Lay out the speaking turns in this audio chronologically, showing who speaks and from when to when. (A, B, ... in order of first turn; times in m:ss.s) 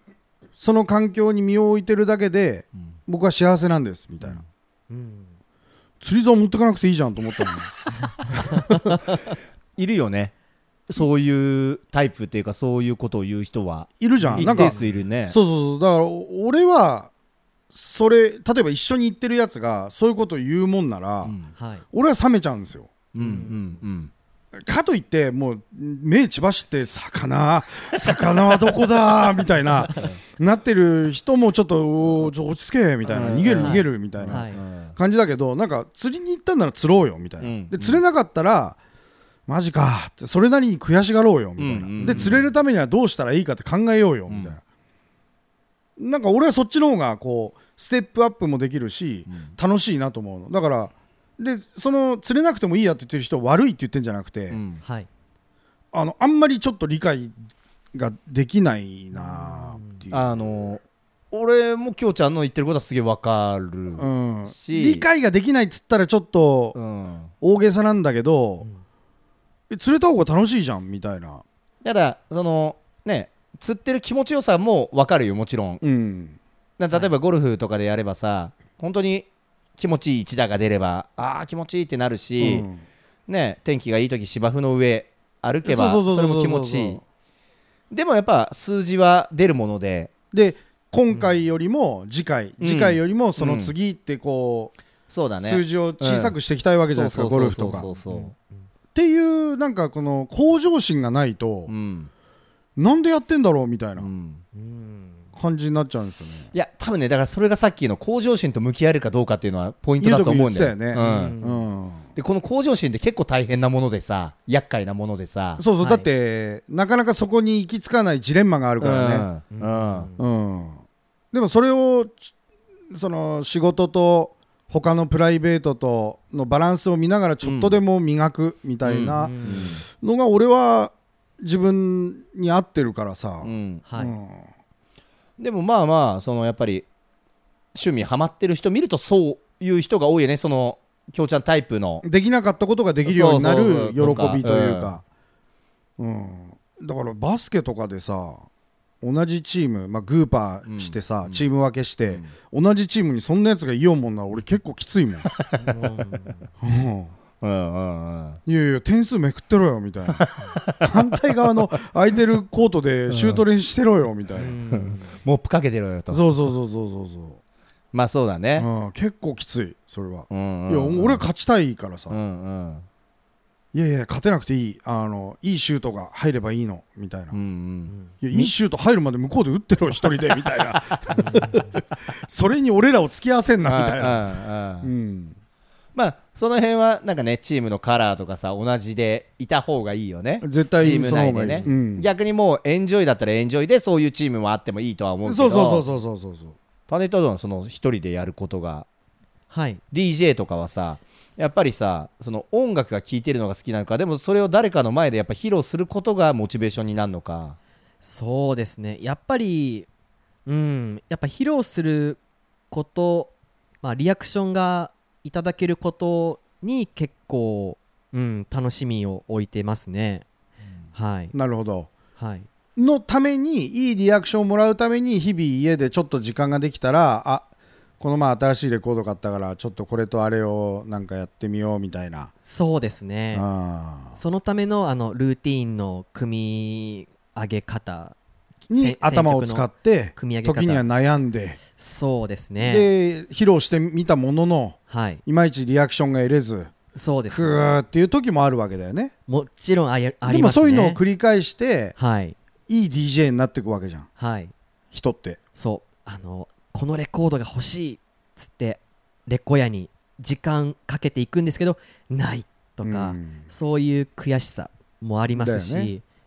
0:00.6-0:04.4 A
0:04.9-0:05.4 B
0:06.0-0:07.7 A
0:08.3-0:08.9 A
0:09.8-0:10.3 C
0:10.9-0:15.4 C
0:14.0-0:17.1 A
0:14.2-0:14.9 B
0:17.7-0:21.4 A
0:21.2-0:21.5 C
0:21.6-0:21.8 B
0:21.9-0:22.9 A
0:23.1-0:24.1 C
0:23.2-0:23.6 B
0:24.6-0:38.8 A
0:33.1-0:35.0 C
0:33.6-0:34.6 B
0:37.4-0:38.0 C
0:39.5-0:44.6 A
0:41.6-0:42.5 C
0:42.0-0:42.4 B
0:44.3-0:44.6 C
0:46.0-0:54.6 A
0:49.3-0:49.5 C
0:54.5-0:54.8 C
0:54.8-0:55.1 B
0:55.9-0:57.4 A
0:57.9-1:00.4 A
0:59.1-1:00.0 B
1:00.1-1:05.0 C
1:04.0-1:06.8 A
1:06.8-1:07.3 C
1:07.4-1:08.7 A
1:09.7-1:11.4 A
1:11.8-1:15.8 C
1:15.8-1:16.4 A
1:16.8-1:22.7 C
1:22.4-1:22.8 A
1:23.3-1:27.0 C
1:25.6-1:27.0 A
1:27.9-1:30.1 C
1:30.3-1:34.7 A
1:31.1-1:31.4 B
1:32.6-1:33.7 C
1:35.1-1:38.3 C
1:35.4-1:37.9 A
1:37.9-1:38.6 B
1:38.9-1:41.7 A
1:41.7-1:42.1 C
1:42.8-1:44.1 A
1:44.0-1:44.4 C
1:44.6-1:45.3 B
1:45.4-1:46.5 A
1:46.5-1:51.3 C
1:50.0-1:52.1 A
1:50.9-1:51.6 B
1:52.2-1:55.6 C
1:55.6-1:59.3 A
1:55.8-1:56.1 B
1:58.8-2:00.1 C
1:59.5-2:00.2 B
2:00.2-2:02.3 A
2:02.9-2:14.5 A
2:07.4-2:07.8 C
2:08.8-2:09.8 C
2:09.2-2:09.7 B
2:13.4-2:13.8 C
2:13.9-2:14.2 B
2:15.4-2:16.9 C
2:17.7-2:22.0 C
2:22.0-2:25.0 A
2:23.1-2:24.9 C
2:26.0-2:28.5 A
2:29.0-2:35.3 A
2:30.7-2:31.4 C
2:35.4-2:35.7 C
2:35.6-2:36.5 B
2:36.6-2:37.1 A
2:37.4-2:38.4 C
2:38.5-2:44.5 A
2:40.1-2:40.9 C
2:43.1-2:43.4 C
2:44.4-2:45.2 B
2:44.7-2:46.5 C
2:46.1-2:47.4 A
2:47.9-2:48.7 C
2:48.6-2:52.2 A
2:50.3-2:51.2 C
2:52.1-2:52.9 C
2:53.7-2:57.4 A
2:57.3-2:58.5 C
2:58.2-3:05.4 A
3:01.2-3:01.7 B
3:03.6-3:04.9 C
3:06.0-3:15.8 C
3:10.4-3:12.1 A
3:15.2-3:16.6 A
3:16.9-3:18.9 C
3:19.5-3:19.8 B
3:19.9-3:27.6 C
3:28.0-3:29.9 B
3:30.5-3:32.2 B
3:32.7-3:40.2 B
3:40.9-3:41.3 B
3:41.3-3:41.9 A
3:42.2-3:42.5 B
3:42.8-3:47.5 A
3:48.0-3:52.3 A
3:52.4-3:53.5 B
3:53.3-3:54.2 A
3:54.1-3:58.2 B
3:58.7-4:00.9 B
3:58.7-4:01.6 A
4:01.8-4:02.9 B
4:02.6-4:06.7 A
4:04.9-4:05.2 B
4:07.0-4:07.6 B
4:07.3-4:09.1 A
4:09.3-4:11.0 B
4:10.2-4:11.9 A
4:12.0-4:12.4 B
4:12.7-4:14.1 A
4:14.2-4:14.5 B
4:14.9-4:15.4 A
4:15.6-4:26.0 B
4:22.8-4:23.4 A
4:25.3-4:25.9 A